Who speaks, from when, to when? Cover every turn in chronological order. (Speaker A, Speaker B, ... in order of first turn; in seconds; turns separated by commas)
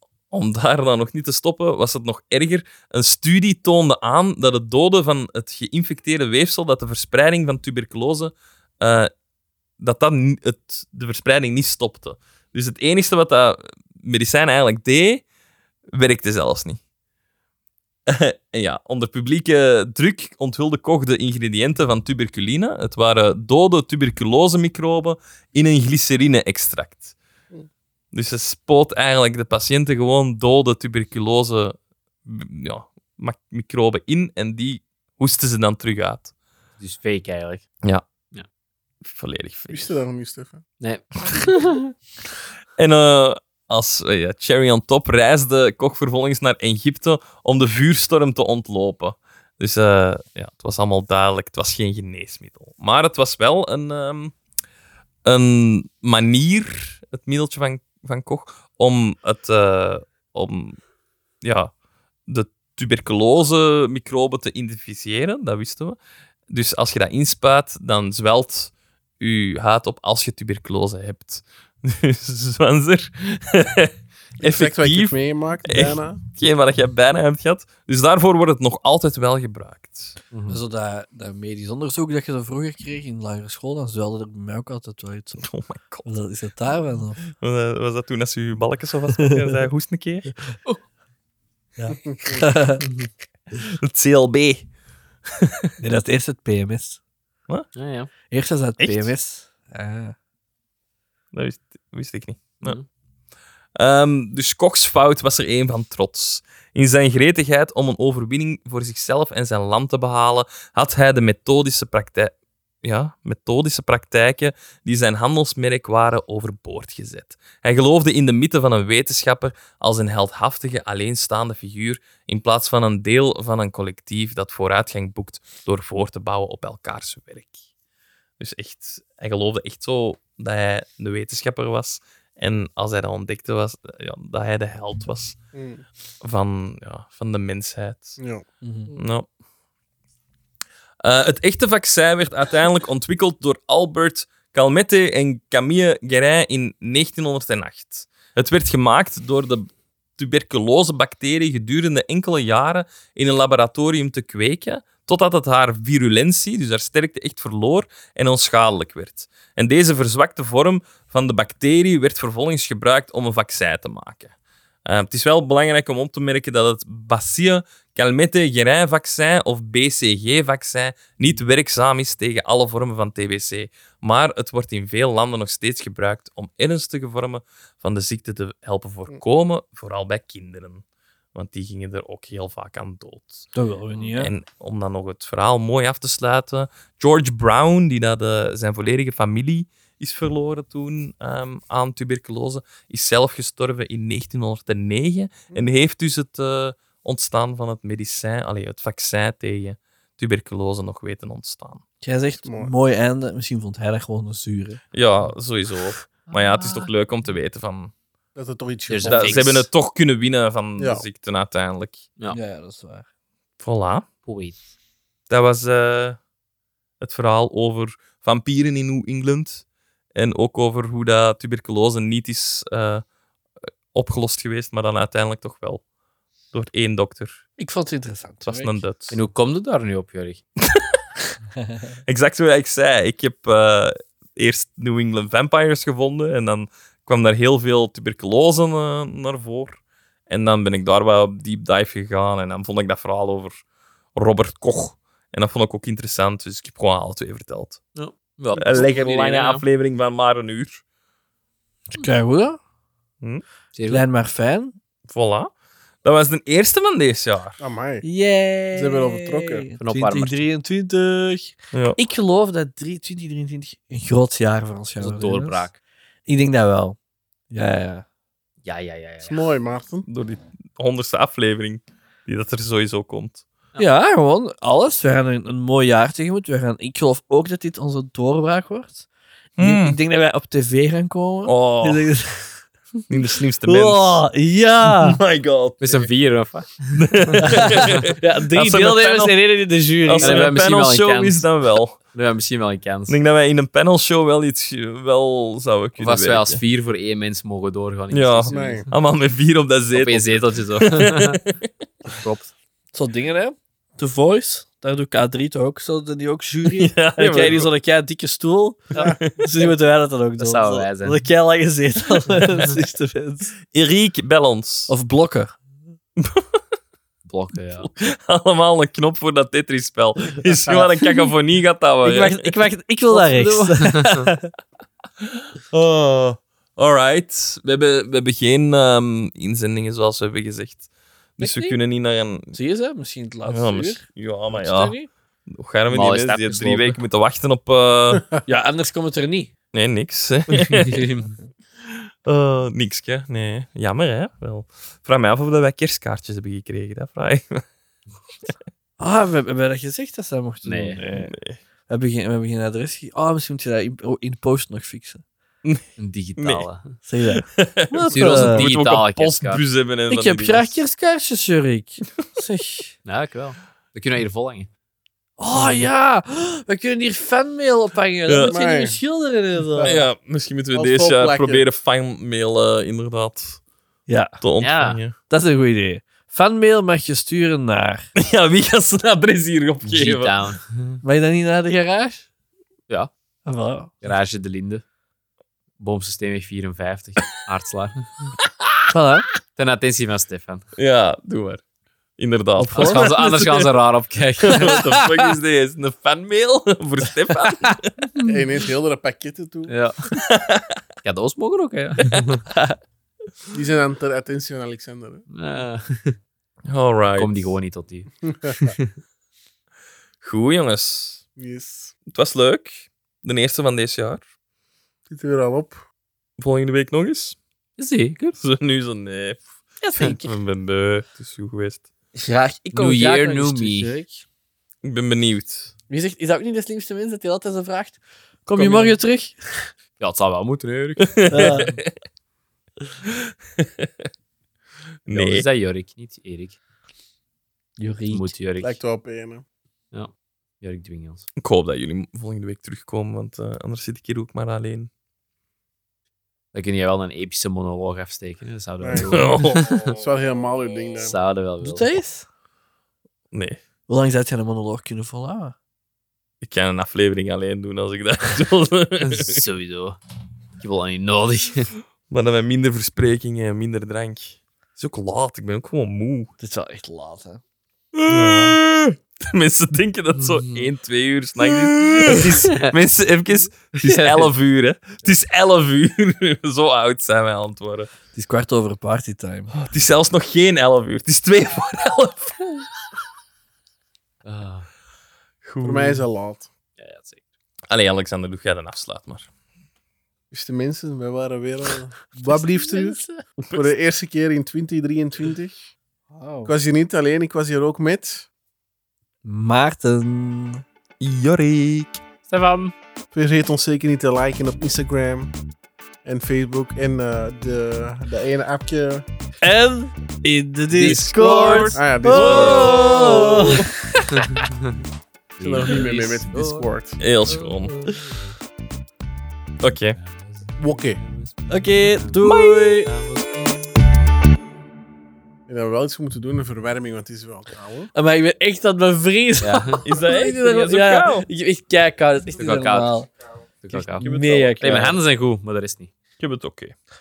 Speaker A: 0.3-9.1, Speaker A: 9.8-15.2, Speaker A: 15.9-16.8, Speaker A: 18.1-27.1, Speaker A: 28.1-36.3, Speaker B: 36.8-37.6, Speaker A: 39.1-39.9, Speaker C: 39.7-40.6, Speaker B: 40.8-41.8, Speaker A: 42.8-54.3, Speaker A: 55.2-60.8, Speaker A: 61.4-61.7, Speaker A: 62.3-66.0, Speaker A: 66.5-80.2, Speaker C: 74.4-76.2, Speaker B: 80.3-80.6, Speaker D: 80.5-85.5, Speaker A: 85.4-86.1, Speaker D: 86.0-87.2, Speaker A: 87.3-90.3, Speaker D: 91.8-92.8, Speaker A: 93.6-94.7, Speaker A: 95.3-95.7, Speaker D: 95.8-97.0, Speaker B: 97.7-98.1, Speaker D: 98.3-100.1, Speaker A: 98.8-99.1, Speaker A: 101.3-102.8, Speaker A: 103.8-127.6, Speaker A: 128.4-135.3, Speaker C: 135.5-135.8, Speaker A: 136.2-138.2, Speaker C: 138.2-138.4, Speaker D: 138.6-138.9, Speaker A: 138.9-139.3, Speaker A: 141.0-164.3, Speaker A: 164.8-180.8, Speaker A: 181.3-183.5, Speaker D: 183.5-184.3, Speaker A: 184.1-201.8, Speaker D: 202.0-204.8, Speaker C: 202.4-202.7, Speaker A: 204.9-207.9, Speaker C: 208.3-209.5, Speaker B: 208.9-209.7, Speaker A: 209.0-212.0, Speaker C: 210.8-211.1, Speaker D: 212.3-213.1, Speaker A: 213.6-214.1, Speaker B: 214.2-214.6, Speaker A: 215.3-216.2, Speaker A: 217.0-219.6, Speaker A: 220.1-223.0, Speaker A: 223.9-225.8, Speaker A: 226.5-227.4, Speaker D: 227.6-228.8, Speaker A: 228.4-229.2, Speaker B: 229.1-230.4, Speaker D: 231.6-231.9, Speaker A: 232.1-243.6, Speaker A: 244.1-247.8, Speaker B: 247.9-249.6, Speaker A: 248.5-250.8, Speaker D: 251.9-252.6, Speaker B: 253.7-254.0, Speaker D: 253.9-254.7, Speaker A: 255.1-255.5, Speaker A: 256.0-257.6, Speaker C: 257.6-258.1, Speaker D: 258.0-265.7, Speaker C: 258.7-259.7, Speaker B: 259.8-260.4, Speaker A: 261.7-262.0, Speaker B: 265.0-265.8, Speaker D: 266.3-267.0, Speaker D: 267.5-268.0, Speaker B: 268.6-269.5, Speaker C: 269.2-270.1, Speaker A: 270.1-273.4, Speaker D: 273.8-279.1, Speaker A: 279.6-280.0, Speaker D: 279.6-282.6, Speaker A: 281.4-282.1, Speaker A: 283.1-284.2, Speaker D: 283.6-285.2, Speaker A: 284.9-286.1, Speaker B: 285.8-288.0, Speaker A: 286.9-289.4, Speaker D: 287.4-290.6, Speaker A: 290.0-292.0, Speaker B: 290.2-291.4, Speaker B: 292.1-293.2, Speaker A: 293.1-296.6, Speaker B: 296.0-298.8, Speaker A: 298.1-301.6, Speaker C: 298.5-298.9, Speaker B: 299.9-301.4, Speaker B: 302.1-302.5, Speaker D: 302.9-313.6, Speaker A: 306.6-307.7, Speaker A: 309.0-309.6, Speaker B: 310.4-311.2, Speaker A: 313.7-314.9, Speaker D: 314.9-315.5, Speaker A: 316.2-316.4, Speaker B: 317.3-317.9, Speaker A: 317.8-322.6, Speaker D: 322.0-324.5, Speaker B: 323.1-324.3, Speaker A: 325.2-330.8, Speaker A: 331.4-332.5, Speaker D: 331.4-331.8, Speaker D: 332.5-335.1, Speaker A: 333.5-334.9, Speaker A: 335.5-338.3, Speaker B: 335.9-337.0, Speaker D: 338.4-339.5, Speaker A: 339.7-341.1, Speaker B: 340.6-341.3, Speaker A: 342.2-347.6, Speaker D: 349.0-351.3, Speaker B: 350.6-351.0, Speaker A: 351.1-351.6, Speaker D: 351.9-355.2, Speaker B: 356.0-356.9, Speaker A: 356.4-356.6, Speaker D: 357.0-358.6, Speaker A: 357.3-360.8, Speaker B: 358.1-359.6, Speaker D: 360.1-362.9, Speaker B: 363.0-364.7, Speaker D: 365.4-370.0, Speaker A: 365.6-365.8, Speaker A: 368.3-368.6, Speaker C: 368.4-369.0, Speaker C: 369.6-370.0, Speaker A: 369.8-373.6, Speaker C: 370.7-371.6, Speaker D: 374.1-374.4, Speaker A: 374.4-375.1, Speaker B: 374.6-375.0, Speaker D: 375.3-378.1, Speaker A: 378.2-380.3, Speaker B: 379.8-381.0, Speaker D: 381.0-382.3, Speaker D: 383.4-384.0, Speaker B: 384.0-384.8, Speaker B: 385.8-388.3, Speaker D: 388.9-389.3, Speaker B: 389.6-390.6, Speaker A: 390.8-391.6, Speaker A: 392.2-393.7, Speaker D: 392.6-393.1, Speaker B: 392.7-394.8, Speaker A: 394.4-398.1, Speaker D: 394.7-395.2, Speaker C: 398.2-399.7, Speaker B: 399.7-400.1, Speaker A: 400.1-400.8, Speaker B: 401.0-402.4, Speaker C: 403.5-405.2, Speaker B: 405.3-406.2, Speaker A: 406.7-407.6, Speaker B: 407.1-408.1, Speaker C: 408.3-408.7, Speaker B: 408.6-408.9, Speaker A: 410.2-411.2, Speaker C: 411.4-411.9, Speaker A: 412.1-414.2, Speaker C: 415.1-415.8, Speaker A: 416.4-417.4, Speaker B: 417.8-418.4, Speaker A: 418.4-421.9, Speaker D: 420.0-420.3, Speaker D: 422.1-424.2, Speaker B: 422.7-423.9, Speaker A: 424.8-425.7, Speaker D: 425.9-429.7, Speaker B: 430.0-431.2, Speaker A: 431.0-431.9, Speaker D: 431.3-431.8, Speaker A: 433.6-433.9, Speaker A: 435.1-435.4, Speaker B: 435.1-436.6, Speaker D: 437.8-438.3, Speaker B: 438.1-438.8, Speaker C: 438.6-439.4, Speaker B: 439.9-441.2, Speaker A: 441.4-444.9, Speaker B: 446.5-450.0, Speaker C: 448.8-451.2, Speaker A: 449.0-449.6, Speaker B: 451.0-451.9, Speaker D: 451.6-452.2, Speaker A: 453.3-453.6, Speaker D: 453.9-455.5, Speaker A: 456.4-459.4, Speaker B: 459.0-460.0, Speaker B: 460.6-461.7, Speaker A: 462.1-466.3, Speaker D: 466.4-467.4, Speaker D: 468.0-468.6, Speaker A: 468.1-477.9, Speaker B: 470.1-470.7, Speaker B: 472.1-472.7, Speaker B: 473.7-474.3, Speaker D: 478.1-479.5, Speaker A: 479.5-482.7, Speaker B: 484.2-484.7, Speaker A: 485.4-486.0, Speaker C: 485.6-486.5, Speaker B: 486.8-487.2, Speaker A: 487.7-489.3, Speaker C: 490.3-495.7, Speaker D: 492.3-493.0, Speaker D: 496.1-496.5, Speaker C: 496.4-498.3, Speaker D: 499.2-500.6, Speaker A: 501.0-502.0, Speaker B: 502.3-502.7, Speaker C: 503.1-505.3, Speaker C: 506.0-509.0, Speaker D: 509.4-514.4, Speaker A: 510.7-513.6, Speaker C: 511.7-513.5, Speaker B: 514.1-514.8, Speaker B: 515.4-516.6, Speaker C: 515.4-517.0, Speaker A: 517.0-517.9, Speaker D: 517.4-518.0, Speaker A: 519.6-520.0, Speaker B: 520.0-522.2, Speaker C: 520.6-521.0, Speaker D: 521.5-522.9, Speaker A: 522.2-522.8, Speaker B: 522.9-523.6, Speaker C: 525.5-527.9, Speaker D: 527.9-533.1, Speaker B: 529.4-529.8, Speaker A: 529.8-531.3, Speaker B: 532.4-532.9, Speaker B: 533.6-535.9, Speaker D: 533.7-535.0, Speaker A: 534.0-534.7, Speaker A: 536.2-536.7